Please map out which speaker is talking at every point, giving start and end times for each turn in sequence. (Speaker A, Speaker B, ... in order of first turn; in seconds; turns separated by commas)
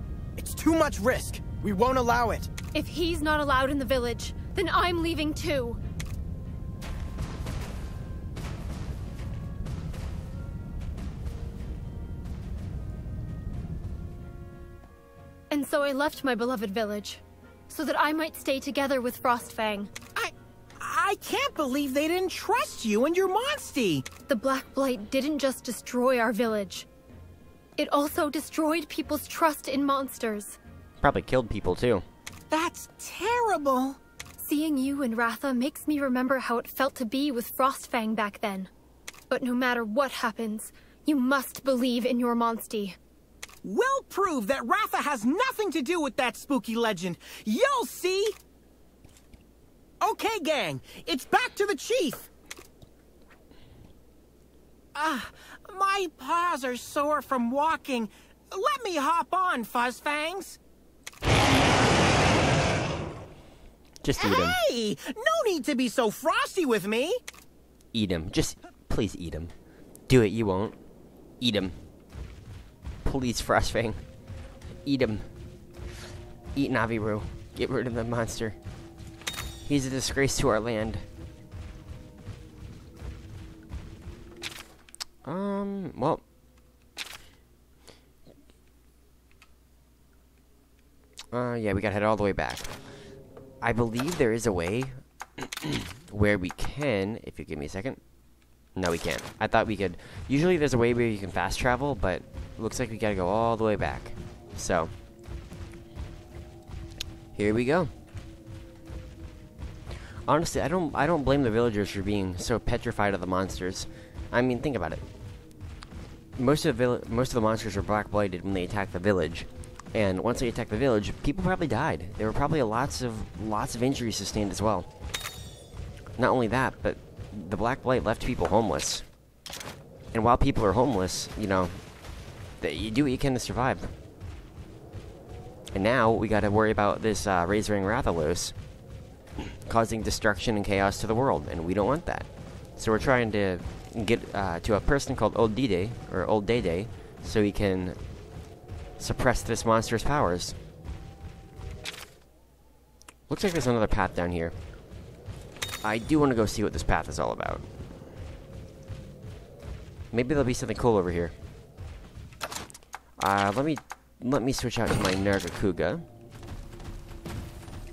Speaker A: 0.4-2.5, Speaker B: 2.7-5.8, Speaker B: 15.5-19.9, Speaker C: 20.1-24.0, Speaker B: 24.3-26.9, Speaker B: 27.8-30.6, Speaker D: 31.0-32.0, Speaker C: 32.5-34.0, Speaker B: 34.4-38.7, Speaker B: 39.3-43.0, Speaker C: 43.6-48.4, Speaker C: 50.0-52.3, Speaker C: 54.9-60.6, Speaker D: 64.0-64.6, Speaker C: 64.2-67.2, Speaker D: 67.9-69.5, Speaker D: 70.1-70.8, Speaker D: 71.4-71.7, Speaker D: 73.0-74.0, Speaker D: 74.8-75.3, Speaker D: 76.5-78.6, Speaker D: 79.7-81.0, Speaker D: 85.2-86.2, Speaker D: 91.3-92.7, Speaker D: 93.6-98.0, Speaker D: 98.7-104.9, Speaker D: 107.3-107.9, Speaker D: 110.3-115.0, Speaker D: 116.3-124.9, Speaker D: 126.2-129.0, Speaker D: 130.1-131.8, Speaker D: 132.6-133.9, Speaker D: 135.7-138.6, Speaker D: 139.6-148.0, Speaker D: 149.0-150.6, Speaker D: 153.3-154.5, Speaker D: 155.8-157.6, Speaker D: 160.1-161.3, Speaker D: 163.2-166.1